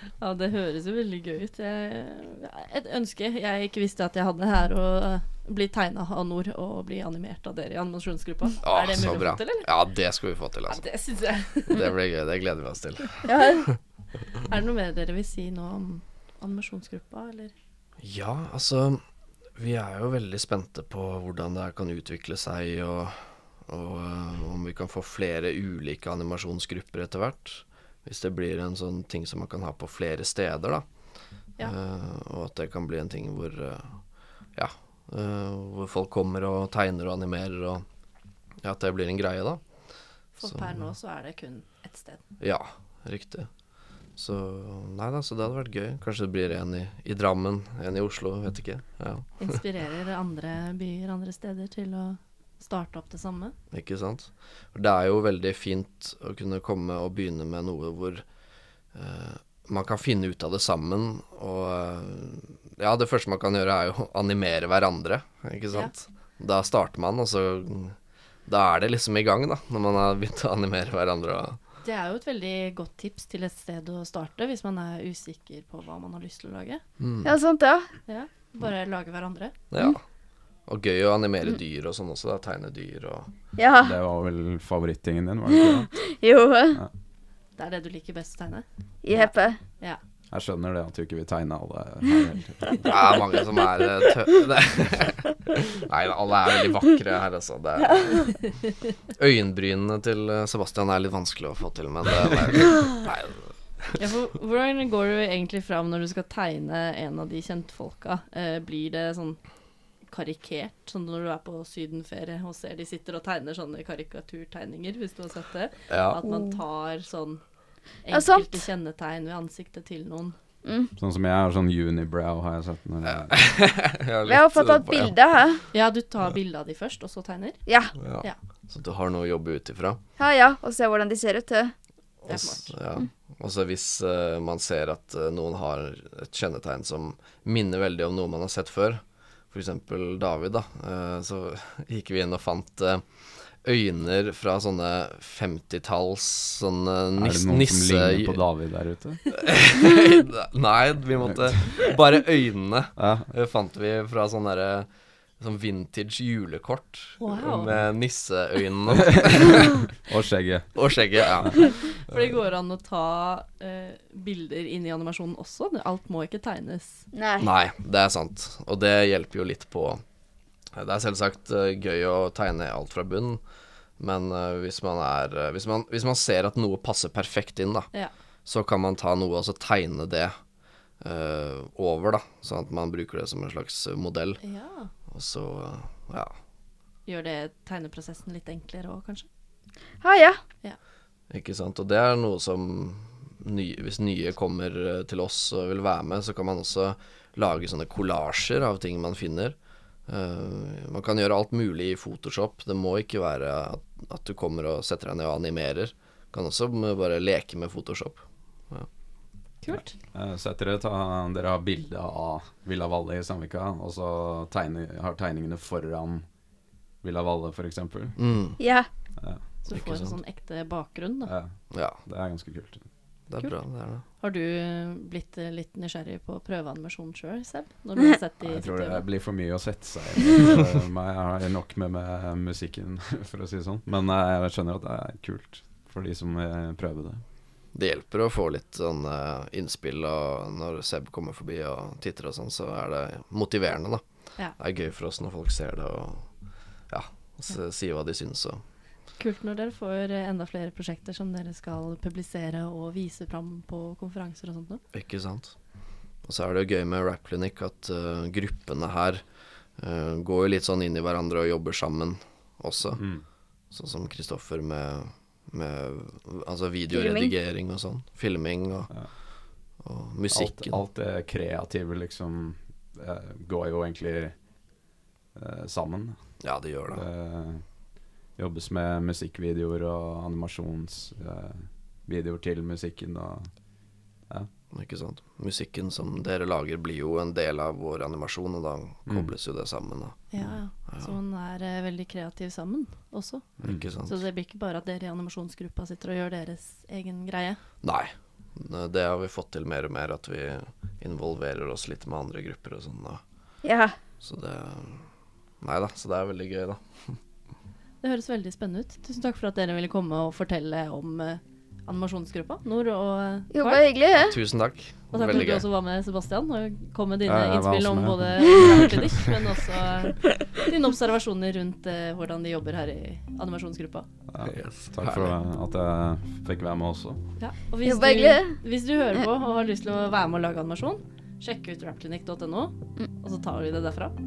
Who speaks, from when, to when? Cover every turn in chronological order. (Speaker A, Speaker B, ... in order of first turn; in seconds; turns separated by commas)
Speaker A: 0.2-9.7, Speaker B: 8.6-10.8, Speaker A: 10.7-12.0, Speaker B: 11.7-13.6, Speaker C: 13.2-13.7, Speaker A: 14.4-17.5, Speaker B: 18.0-19.0, Speaker B: 19.6-30.9, Speaker B: 31.6-34.0, Speaker B: 34.5-37.8, Speaker B: 38.6-39.6, Speaker A: 40.4-42.2, Speaker B: 40.4-40.9, Speaker B: 42.4-43.5, Speaker B: 44.2-49.6, Speaker A: 49.4-53.5, Speaker B: 53.7-58.2, Speaker B: 58.9-68.0, Speaker B: 68.5-71.6, Speaker A: 71.8-76.8, Speaker B: 77.0-77.3, Speaker C: 77.2-77.9, Speaker A: 78.1-79.5, Speaker B: 79.7-80.0, Speaker B: 80.7-83.3, Speaker C: 83.6-84.0, Speaker D: 83.8-85.9, Speaker C: 85.9-86.8, Speaker A: 87.6-90.0, Speaker C: 89.0-89.6, Speaker D: 90.3-93.0, Speaker B: 92.8-98.4, Speaker C: 97.8-98.3, Speaker B: 99.2-104.0, Speaker A: 104.0-109.4, Speaker A: 110.1-117.4, Speaker B: 115.9-116.2, Speaker C: 116.2-116.6, Speaker A: 118.0-120.4, Speaker C: 118.1-118.6, Speaker C: 120.7-120.9, Speaker D: 121.0-123.5, Speaker B: 123.2-125.2, Speaker C: 124.3-125.6, Speaker A: 125.7-127.6, Speaker C: 127.7-127.9, Speaker B: 128.0-130.0, Speaker C: 130.2-131.7, Speaker B: 132.2-148.4, Speaker A: 132.3-132.7, Speaker D: 147.2-149.2, Speaker B: 149.3-154.9, Speaker D: 151.2-151.6, Speaker D: 153.0-153.3, Speaker B: 155.4-159.9, Speaker A: 157.2-157.7, Speaker D: 158.9-161.6, Speaker B: 160.8-162.3, Speaker A: 161.6-167.1, Speaker C: 167.1-167.5, Speaker B: 167.4-170.0, Speaker B: 170.8-173.4, Speaker B: 174.0-177.9, Speaker B: 178.4-180.3, Speaker B: 181.0-184.4, Speaker A: 184.4-184.9, Speaker B: 185.1-186.3, Speaker A: 187.1-189.3, Speaker C: 190.0-190.4, Speaker B: 191.3-199.6, Speaker B: 200.1-208.9, Speaker A: 209.6-210.0, Speaker D: 209.7-216.2, Speaker D: 217.0-218.2, Speaker B: 218.2-218.6, Speaker C: 218.6-218.9, Speaker D: 219.2-219.4, Speaker A: 219.7-221.3, Speaker B: 219.7-220.2, Speaker D: 221.3-222.9, Speaker B: 221.7-222.0, Speaker B: 223.3-224.0, Speaker A: 223.4-229.0, Speaker D: 228.4-237.2, Speaker B: 237.7-244.0, Speaker B: 244.6-246.3, Speaker B: 246.9-248.6, Speaker A: 249.2-254.8, Speaker B: 254.9-255.6, Speaker B: 256.2-259.2, Speaker B: 259.8-263.1, Speaker D: 263.0-263.2, Speaker B: 263.7-268.9, Speaker C: 266.9-267.3, Speaker B: 269.8-270.8, Speaker D: 270.3-274.4, Speaker D: 275.3-276.4, Speaker B: 276.4-277.1, Speaker D: 276.9-277.6, Speaker D: 278.4-283.5, Speaker B: 284.7-291.1, Speaker D: 289.1-289.3, Speaker A: 290.3-293.5, Speaker B: 293.6-294.2, Speaker D: 293.6-293.9, Speaker A: 294.1-297.6, Speaker B: 297.8-303.2, Speaker C: 303.6-304.0, Speaker B: 304.2-305.1, Speaker B: 305.6-307.2, Speaker A: 308.0-313.8, Speaker C: 313.5-314.4, Speaker B: 314.2-315.6, Speaker A: 315.1-324.1, Speaker D: 317.3-319.3, Speaker D: 324.3-327.2, Speaker B: 324.4-325.4, Speaker A: 327.4-334.2, Speaker C: 327.9-328.6